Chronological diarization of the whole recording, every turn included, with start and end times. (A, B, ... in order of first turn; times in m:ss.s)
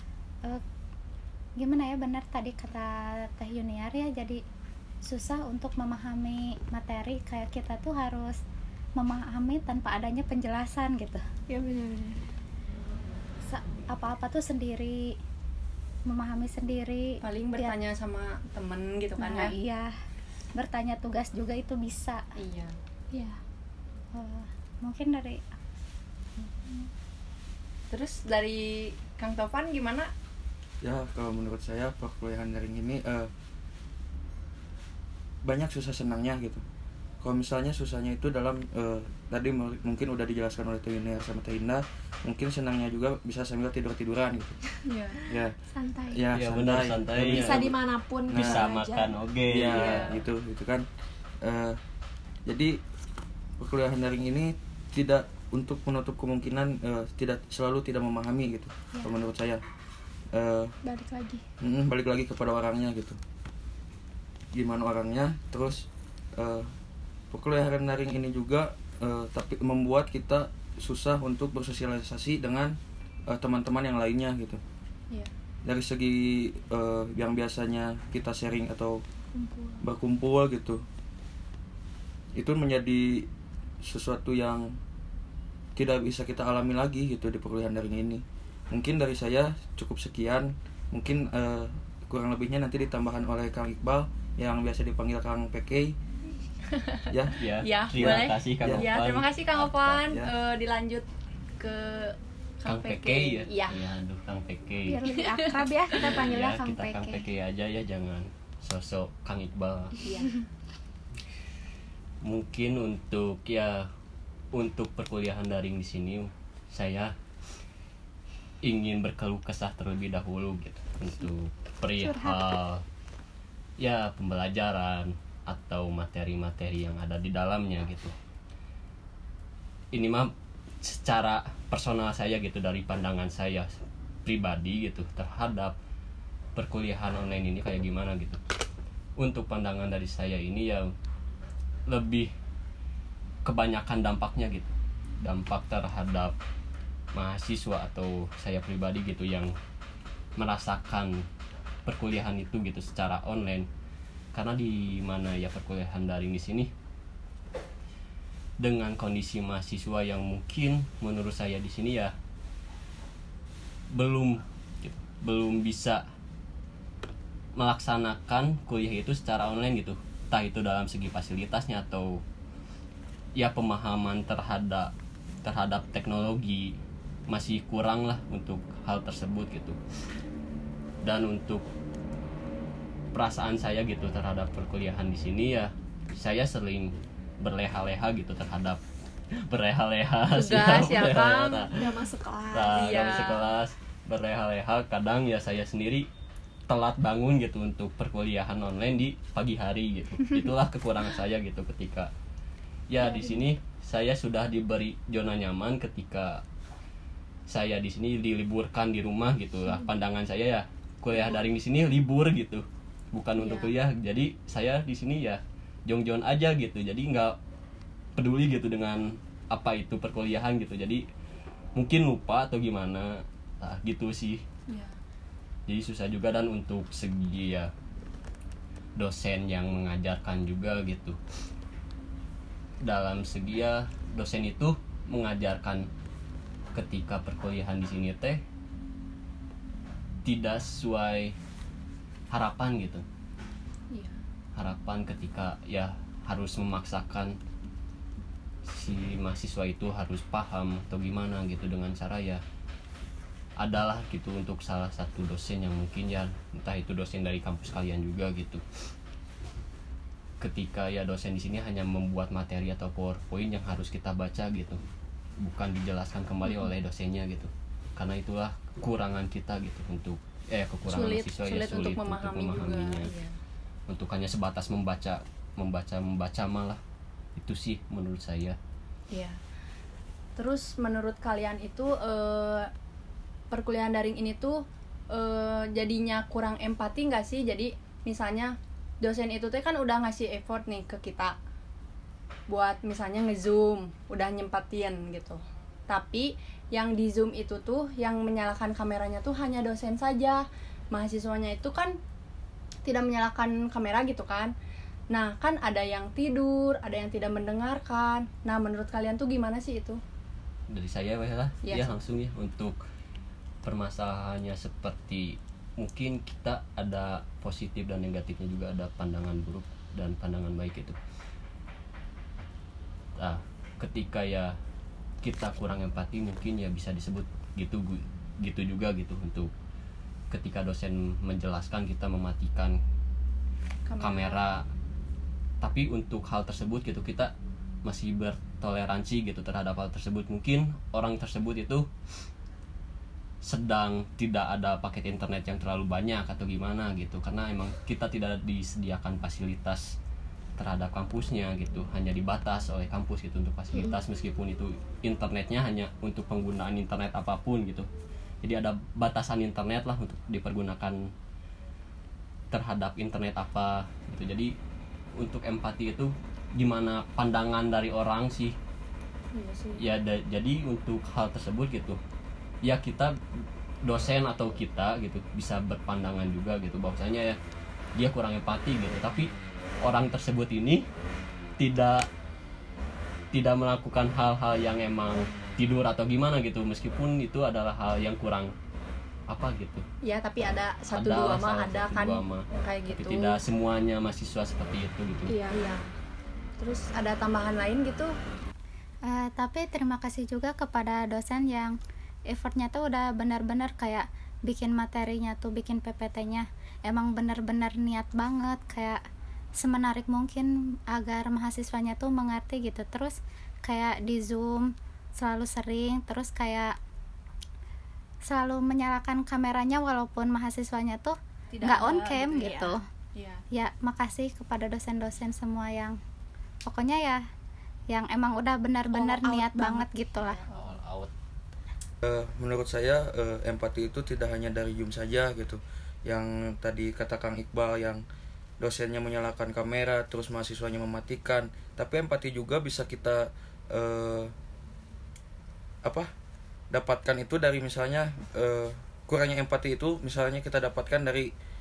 0:01.6-0:04.4 A
0:05.1-0:08.3 A
0:09.0-0:11.2 A
0:11.5-0:12.2 B
0:13.4-0:15.1 A
0:16.0-0:17.8 A
0:17.2-0:19.5 C
0:19.2-0:19.9 A
0:20.5-0:22.2 A
0:22.4-0:22.7 C
0:23.1-0:23.4 B
0:24.1-0:25.5 A
0:26.4-0:26.9 A
0:27.9-0:30.1 C
0:30.8-0:33.3 D
0:35.4-0:36.6 D
0:37.2-0:44.5 D
0:44.9-0:45.2 C
0:45.3-0:45.5 D
0:45.7-0:46.2 B
0:46.1-0:47.7 D
0:46.3-0:47.6 E
0:47.3-0:49.1 B
0:48.3-0:48.6 D
0:48.3-0:50.0 E
0:49.5-0:50.8 D
0:49.8-0:50.2 C
0:51.4-0:51.8 D
0:52.4-0:52.8 D
0:53.6-0:59.6 D
1:00.3-1:00.7 D
1:00.8-1:01.4 B
1:01.6-1:03.2 D
1:04.5-1:06.7 D
1:07.3-1:14.6 D
1:15.6-1:19.0 D
1:19.3-1:19.8 B
1:19.8-1:20.8 D
1:22.3-1:23.3 D
1:23.8-1:24.7 D
1:25.8-1:36.0 D
1:36.7-1:37.0 C
1:37.1-1:37.4 D
1:37.4-1:40.0 E
1:37.6-1:41.1 C
1:38.0-1:38.9 D
1:41.6-1:43.8 C
1:42.6-1:45.0 E
1:44.8-1:47.2 B
1:45.1-1:45.6 C
1:46.0-1:50.0 E
1:50.0-1:50.3 C
1:52.2-1:53.8 E
1:54.5-1:57.1 E
1:58.6-2:02.8 E
2:02.0-2:02.4 B
2:03.8-2:08.1 E
2:09.9-2:10.3 E
2:10.8-2:13.7 E
2:14.2-2:15.8 E
2:16.6-2:18.4 E
2:19.2-2:20.9 E
2:21.9-2:22.3 E
2:23.4-2:26.4 E
2:27.1-2:29.5 E
2:30.4-2:31.1 E
2:31.8-2:33.7 E
2:34.3-2:36.7 E
2:38.6-2:42.1 E
2:43.9-2:46.0 E
2:47.6-2:52.2 E
2:53.4-2:54.9 E
2:55.4-2:56.7 E
2:57.3-2:59.8 E
3:01.0-3:01.7 E
3:03.1-3:08.8 E
3:09.5-3:11.7 E
3:10.3-3:11.6 C
3:11.7-3:13.0 B
3:12.5-3:16.1 E
3:12.8-3:13.4 C
3:16.7-3:22.1 E
3:22.9-3:26.4 E
3:23.0-3:23.4 B
3:27.5-3:37.4 E
3:33.4-3:33.7 C
3:38.2-3:41.0 E
3:41.8-3:44.4 E
3:45.7-3:47.7 E
3:49.0-3:51.2 E
3:52.8-3:55.9 E
3:56.7-3:58.4 E
4:00.2-4:01.3 E
4:02.3-4:03.0 E
4:04.5-4:07.4 E
4:08.6-4:12.4 E
4:13.6-4:18.6 E
4:20.4-4:24.8 E
4:25.4-4:33.1 E
4:30.8-4:33.3 C
4:33.9-4:36.8 E
4:37.4-4:38.6 E
4:39.1-4:39.4 C
4:40.4-4:42.7 C
4:43.5-4:51.4 C
4:52.5-5:02.0 C
5:02.8-5:04.5 C
5:05.1-5:10.0 C
5:10.7-5:12.8 E
5:11.6-5:11.9 C
5:13.6-5:21.0 E
5:23.2-5:24.5 E
5:25.2-5:29.5 E
5:30.3-5:32.8 E
5:33.8-5:34.3 C
5:34.0-5:34.6 E
5:35.6-5:37.3 E
5:37.8-5:41.9 E
5:43.4-5:50.0 E
5:50.6-5:57.9 E
5:58.4-6:01.1 E
6:02.5-6:04.5 E
6:05.2-6:08.6 E
6:09.3-6:09.8 C
6:09.8-6:12.0 E
6:12.6-6:13.1 E
6:13.8-6:17.4 E
6:18.0-6:19.3 E
6:19.8-6:20.8 E
6:21.6-6:22.0 E
6:23.3-6:28.5 E
6:29.3-6:29.8 E
6:30.0-6:33.4 C
6:30.9-6:35.4 E
6:35.3-6:35.8 C
6:36.6-6:38.1 C
6:39.1-6:41.8 A
6:42.3-6:49.0 A
6:49.6-6:56.7 A
6:58.3-7:02.8 A
7:01.5-7:03.4 C
7:03.5-7:06.0 A
7:06.6-7:07.2 A
7:07.9-7:10.4 A
7:08.9-7:09.9 B
7:10.2-7:10.8 C
7:10.6-7:11.1 E
7:12.0-7:18.0 D
7:18.6-7:24.3 D
7:25.8-7:26.1 D
7:26.7-7:31.3 D